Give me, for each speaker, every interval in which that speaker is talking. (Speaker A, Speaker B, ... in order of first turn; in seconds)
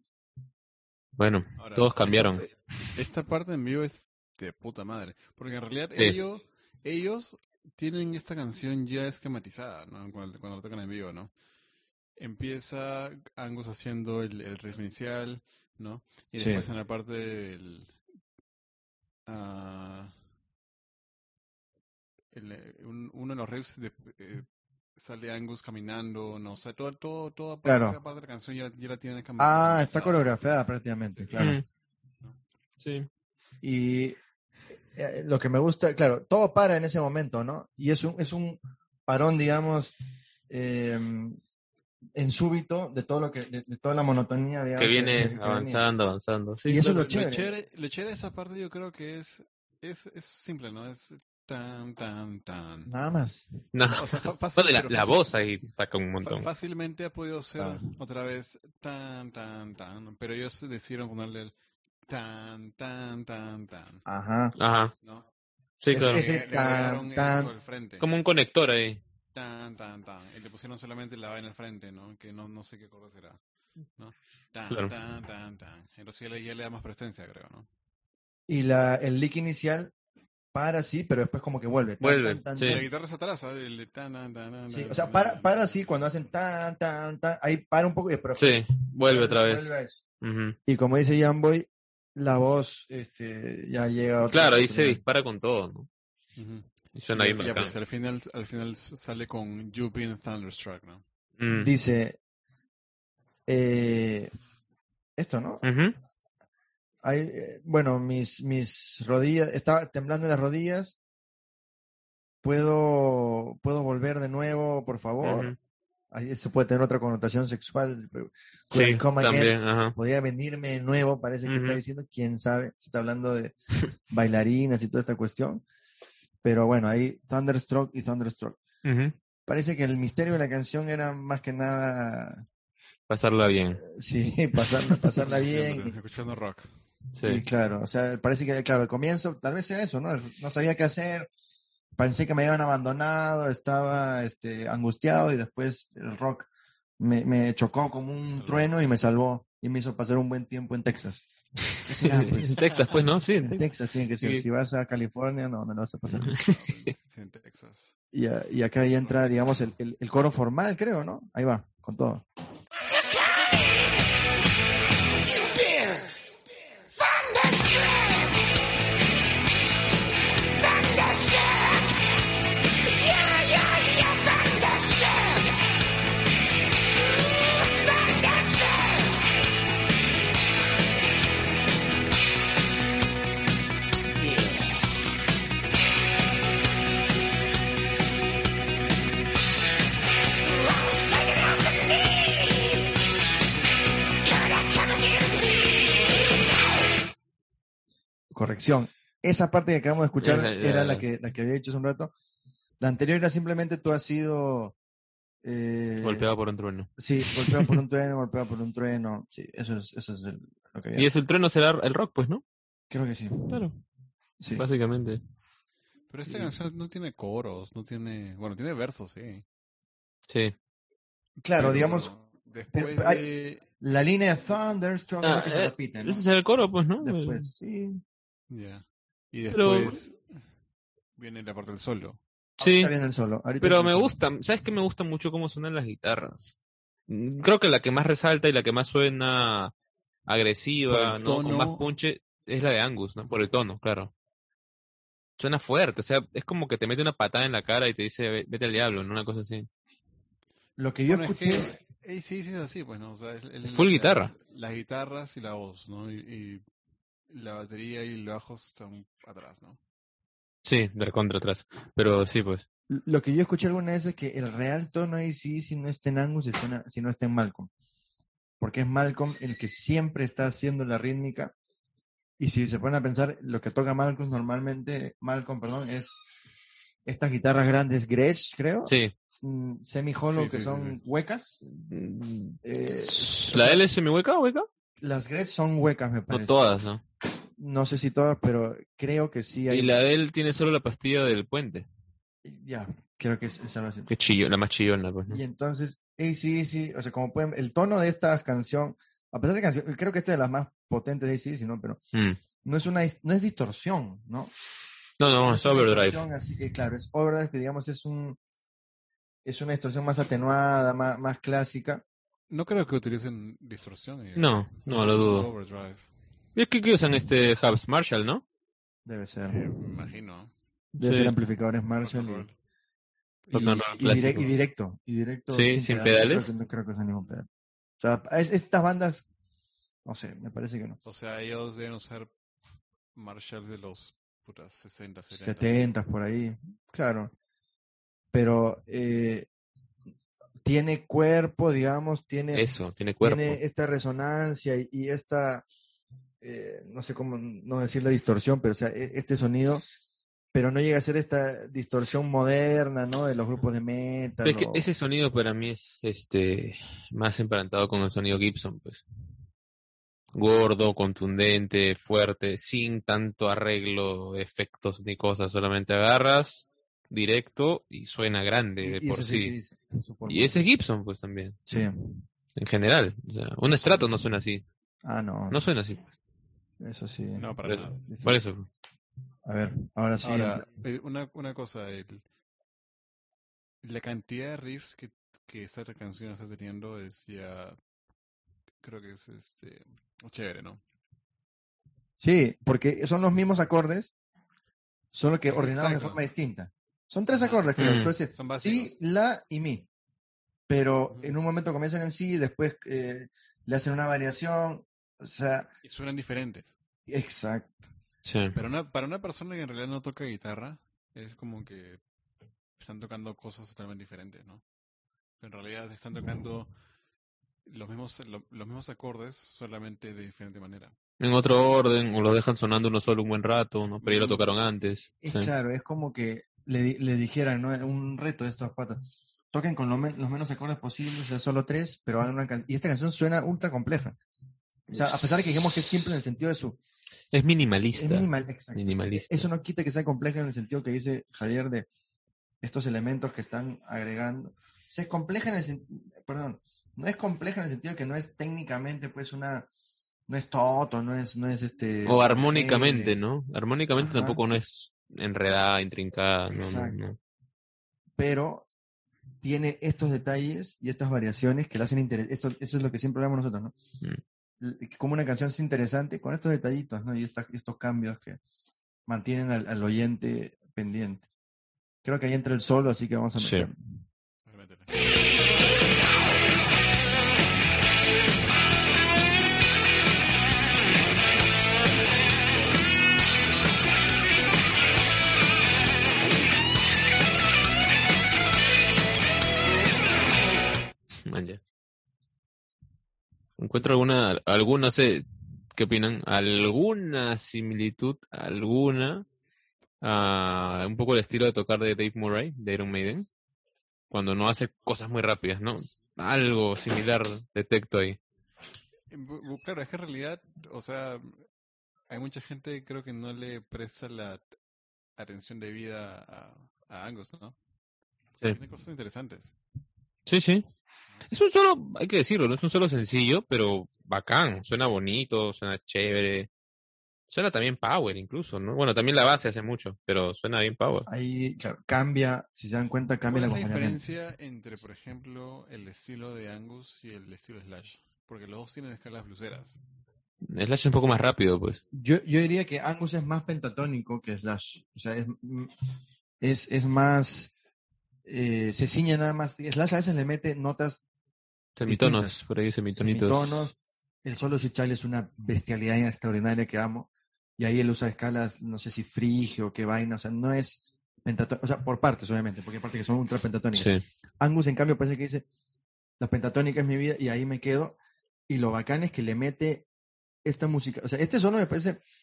Speaker A: 1.2-2.5, 31.4-31.6, 32.8-33.1, 44.8-46.9, 53.7-54.0, 54.6-56.5, 64.6-64.9, 65.8-66.2, 68.0-69.0, 74.7-74.9, 82.0-82.8, 88.4-90.6, 94.2-95.9, 97.0-97.8, 101.4-101.7, 105.6-106.0, 115.2-115.6, 118.7-120.0, 121.5-121.8, 128.8-129.2, 133.1-133.8, 137.1-137.4, 152.0-153.7, 154.2-154.4, 156.1-156.9, 200.2-201.1, 206.0-207.8, 210.9-212.4, 213.5-213.8, 214.6-215.2, 220.3-220.6, 225.2-227.5, 229.5-230.0, 232.6-232.9, 233.6-236.6, 237.1-239.7, 240.3-244.1, 245.4-249.7, 253.7-254.3, 260.6-262.6, 278.9-279.1, 281.9-284.7, 286.3-287.0, 289.7-291.9, 294.1-295.4, 302.1-302.4, 305.2-306.2, 314.4-315.5, 316.6-318.4, 321.0-321.3, 323.5-324.5, 325.5-326.5, 342.5-343.6, 354.4-359.0, 360.3-369.6, 370.3-371.7, 372.6-374.6, 375.5-376.1, 377.6-378.7, 397.8-398.1, 408.2-408.6, 421.2-425.5, 437.3-439.5, 452.1-457.2, 473.4-473.7, 491.3-491.6, 493.6-499.3, 500.0-503.3, 504.1-508.2, 520.3-520.7, 521.3-526.5, 527.3-531.1, 540.4-541.8, 551.8-553.7, 563.7-564.0
Speaker B: 1.6-11.3, 12.2-18.0, 19.3-20.1, 22.3-30.4, 31.1-31.5, 46.7-52.9, 53.9-55.3, 56.2-61.5, 62.1-64.0, 65.9-68.1, 69.3-73.4, 74.0-77.7, 82.6-85.8, 96.4-101.0, 135.2-136.7, 148.3-148.7, 152.6-153.0, 156.3-157.9, 159.0-159.7, 216.1-219.4, 221.5-223.7, 228.5-230.4, 231.2-232.2, 240.9-241.9, 251.1-256.6, 257.3-259.8, 280.3-281.0, 312.5-316.1, 319.5-320.5, 322.0-322.5, 323.4-324.5, 331.1-332.3, 333.1-335.9, 377.4-378.0, 380.2-382.2, 383.8-387.8, 388.8-390.8, 395.5-396.2, 397.3-399.0, 401.1-401.4, 405.8-406.7, 408.6-412.0, 412.8-414.6, 415.4-416.7, 417.7-420.9, 424.0-424.5, 474.5-474.9, 509.1-511.4, 512.1-514.5, 515.2-517.6, 518.4-519.5, 533.3-539.8
Speaker C: 16.4-16.7, 27.6-28.0, 29.4-31.6, 33.6-34.2, 35.0-40.0, 40.5-41.4, 42.1-45.8, 46.7-47.5, 52.9-53.5, 64.1-64.5, 65.9-67.5, 78.5-79.9, 80.5-82.9, 84.7-90.0, 90.7-95.0, 101.5-102.2, 103.5-104.3, 105.2-105.7, 107.0-111.0, 112.4-115.5, 116.1-123.5, 124.1-125.6, 126.4-128.6, 129.5-132.5, 133.8-135.9, 137.2-141.3, 141.9-151.2, 151.8-152.7, 153.4-156.4, 158.1-162.2, 198.3-202.1, 202.8-204.8, 205.4-206.3, 207.0-211.1, 212.9-213.7, 214.4-214.6, 216.3-216.6, 221.4-222.1, 222.7-226.3, 227.0-228.0, 232.6-234.2, 250.8-251.8, 262.9-267.7, 268.6-271.5, 272.4-276.1, 277.1-281.6, 282.6-283.8, 285.0-286.6, 287.6-290.0, 292.4-294.1, 295.3-302.0, 302.6-304.5, 305.4-308.4, 309.4-312.0, 319.1-319.7, 321.0-322.5, 323.5-327.5, 328.0-329.3, 330.1-331.0, 335.3-337.3, 338.3-339.5, 340.6-342.7, 343.2-345.6, 346.4-349.9, 350.5-354.9, 368.8-370.6, 371.7-372.2, 375.0-375.6, 376.8-378.4, 379.4-380.6, 392.2-394.1, 395.1-399.9, 400.7-405.7, 407.1-407.7, 425.2-434.2, 434.9-436.8, 438.0-441.9, 442.6-449.7, 450.3-453.2, 454.0-454.4, 456.5-457.0, 458.2-458.7, 459.4-463.7, 464.6-468.4, 469.1-471.3, 472.0-474.0, 531.1-534.0, 541.9-545.7, 546.4-547.5, 548.3-551.0, 551.9-552.4, 552.9-565.5, 566.2-568.0, 568.5-569.9, 570.5-572.0
Speaker D: 162.8-164.2, 165.2-168.5, 170.4-172.1, 172.8-175.8, 176.9-179.4, 184.2-184.8, 190.4-192.9, 194.2-196.6